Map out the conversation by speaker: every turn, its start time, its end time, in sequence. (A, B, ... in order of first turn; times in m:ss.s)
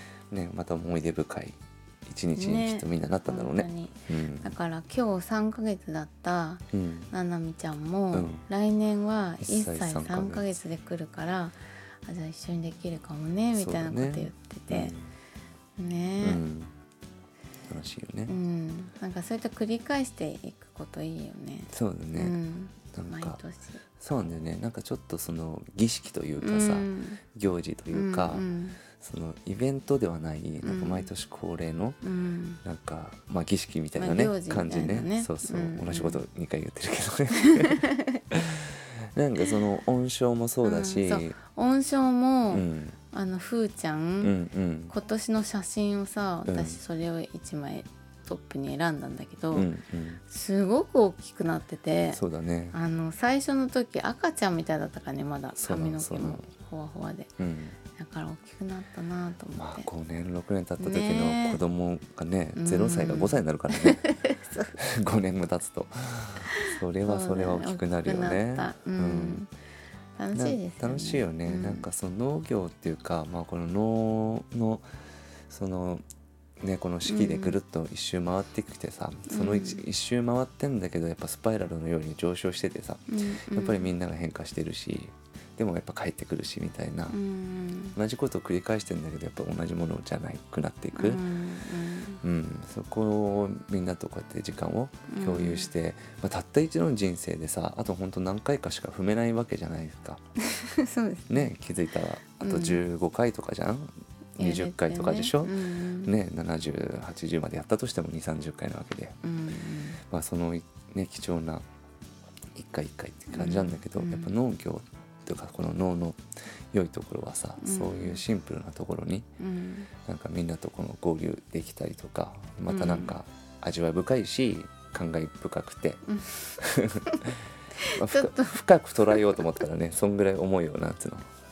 0:00.3-0:04.5 A
0:02.3-0:14.9 B
0:06.7-0:07.1 A
0:08.1-0:08.4 A
0:09.4-0:10.5 A
0:13.5-0:15.1 A
0:15.8-0:16.4 B
0:16.2-0:16.7 A
0:17.7-0:18.3 A
0:18.3-0:23.8 B
0:21.7-0:22.4 A
0:22.9-0:23.4 A
0:24.0-0:28.4 A
0:26.4-0:27.2 B
0:27.9-0:28.8 B
0:29.0-0:32.0 A
0:30.6-0:31.1 B
0:32.0-0:32.6 B
0:32.6-0:41.4 A
0:34.0-0:36.2 B
0:37.4-0:38.2 B
0:40.6-0:44.3 B
0:42.5-0:43.0 A
0:44.2-0:44.9 A
0:44.9-0:49.7 B
0:46.5-0:46.8 A
0:49.5-0:50.2 A
0:50.3-0:52.2 B
0:52.1-0:52.8 A
0:52.7-0:57.3 B
0:55.6-0:56.5 A
0:57.4-0:57.8 A
0:57.9-0:59.9 B
0:59.5-1:04.0 A
1:00.8-1:01.6 B
1:02.6-1:04.8 B
1:04.8-1:09.4 A
1:06.5-1:09.5 B
1:10.2-1:11.8 B
1:10.3-1:14.8 A
1:15.5-1:16.0 A
1:16.6-1:27.2 A
1:17.0-1:17.6 B
1:19.3-1:19.8 B
1:23.1-1:23.9 B
1:27.1-1:28.0 B
1:27.9-1:31.2 A
1:30.9-1:32.2 B
1:32.2-1:40.2 A
1:35.1-1:35.7 B
1:40.4-1:41.5 B
1:41.3-1:49.2 A
1:42.4-1:42.8 B
1:44.4-1:46.1 B
1:49.2-1:50.0 B
1:50.1-1:51.6 A
1:52.5-1:56.2 A
1:53.3-1:54.3 B
1:56.7-1:59.3 A
1:57.6-1:58.2 B
1:59.4-1:59.9 B
2:00.0-2:06.0 A
2:02.7-2:03.2 B
2:06.1-2:07.2 B
2:06.6-2:07.3 A
2:07.8-2:09.6 B
2:07.9-2:11.2 A